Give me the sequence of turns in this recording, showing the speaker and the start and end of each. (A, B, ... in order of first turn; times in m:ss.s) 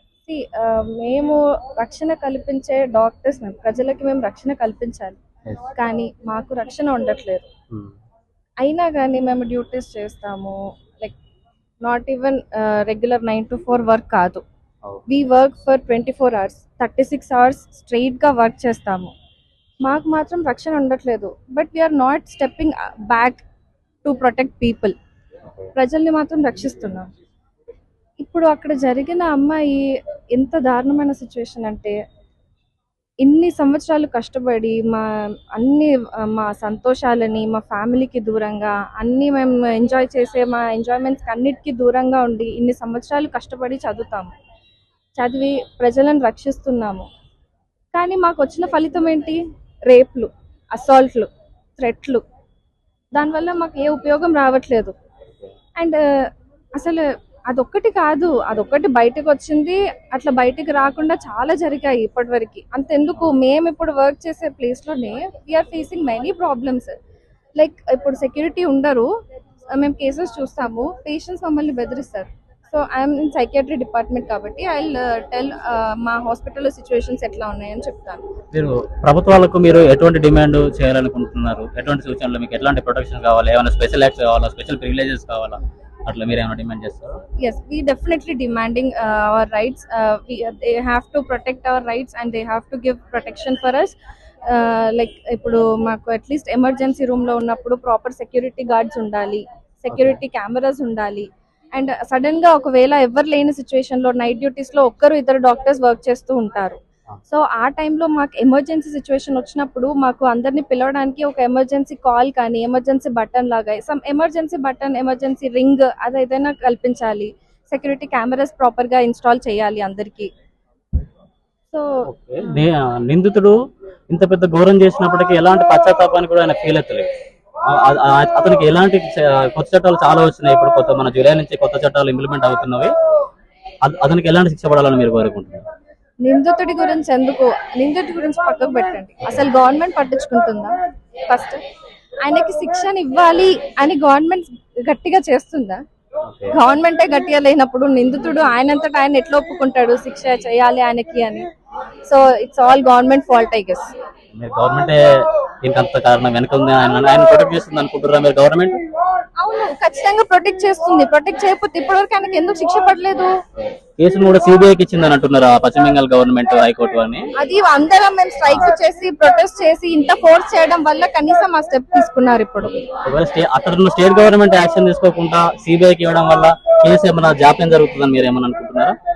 0:00.2-0:05.2 A
0:05.7-0:07.5 A
0:08.6-0:11.2 A
0:11.8-0:14.4 A
0:15.1-0:19.1 A
0:19.8-0:23.4 A
0:24.0-0:24.9 A
0:25.7-0:27.1 A
0:28.2-0:32.0 A
0:33.2-0:44.3 A
0:45.2-0:47.1 A
0:47.9-0:52.2 A
0:53.1-0:54.9 A
0:55.8-0:56.0 A
0:56.7-1:06.9 A
1:07.6-1:09.1 A
1:09.7-1:18.2 A
1:18.5-1:27.2 B
1:27.4-1:34.0 A
1:34.5-2:00.3 A
1:39.9-1:40.2 B
2:02.1-2:03.6 B
2:04.1-2:07.1 B
2:07.7-2:12.9 B
2:13.8-2:15.6 B
2:16.2-2:20.7 A
2:21.3-2:21.6 A
2:22.2-2:25.8 A
2:26.2-2:26.6 B
2:26.5-2:31.5 A
2:32.0-2:33.9 A
2:34.3-2:35.0 B
2:35.6-2:38.8 B
2:39.4-2:43.3 A
2:44.0-2:47.3 B
2:47.4-2:52.8 A
2:48.4-2:48.7 B
2:52.6-2:58.9 B